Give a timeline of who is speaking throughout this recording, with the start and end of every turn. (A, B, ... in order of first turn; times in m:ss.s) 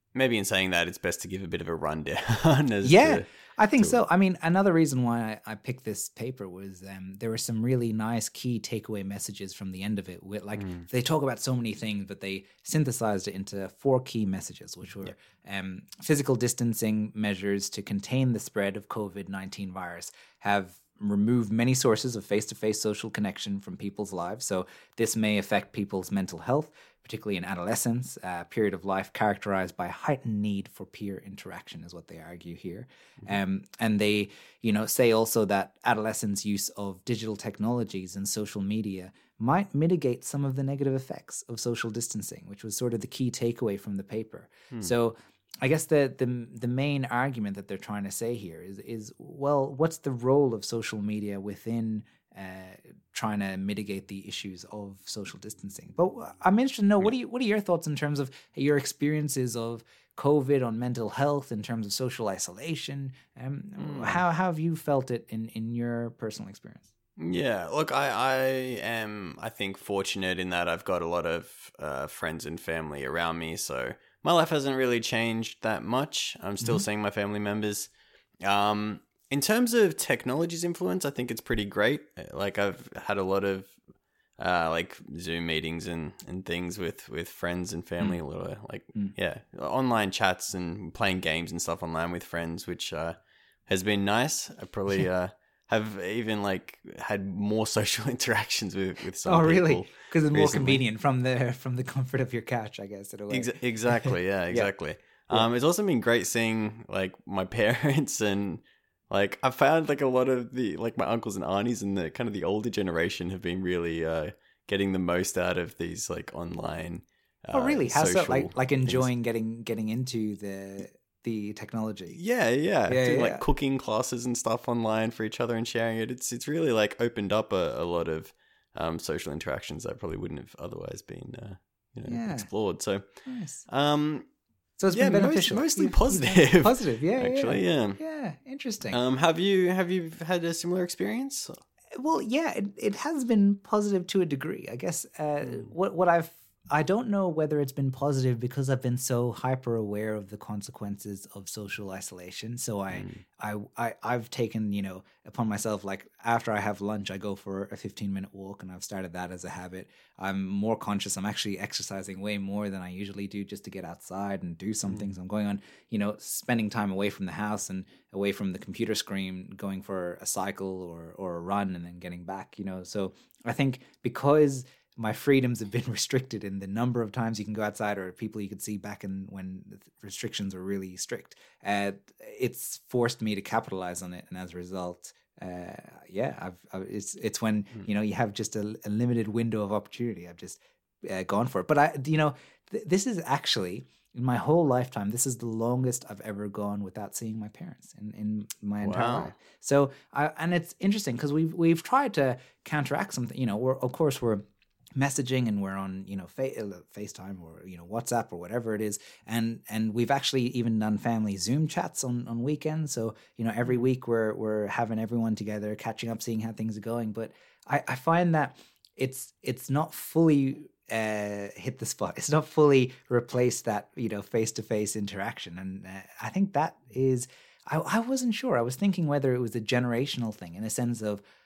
0:00.1-0:04.0 A
0:02.8-1:06.9 B
0:10.6-0:10.9 A
1:03.8-1:04.2 A
1:07.2-1:17.9 A
1:18.4-1:23.8 A
1:24.4-1:33.2 A
1:33.7-1:40.8 A
1:39.2-1:44.7 B
1:43.3-1:59.0 A
1:57.5-2:02.2 B
2:02.1-2:13.1 A
2:02.9-2:03.4 B
2:12.1-2:12.5 B
2:13.2-2:13.6 B
2:13.7-2:14.3 A
2:14.8-2:19.0 B
2:14.9-2:18.0 A
2:18.9-2:21.6 A
2:22.0-3:24.4 B
2:32.9-2:33.2 A
3:18.8-3:19.3 A
3:25.0-3:51.2 B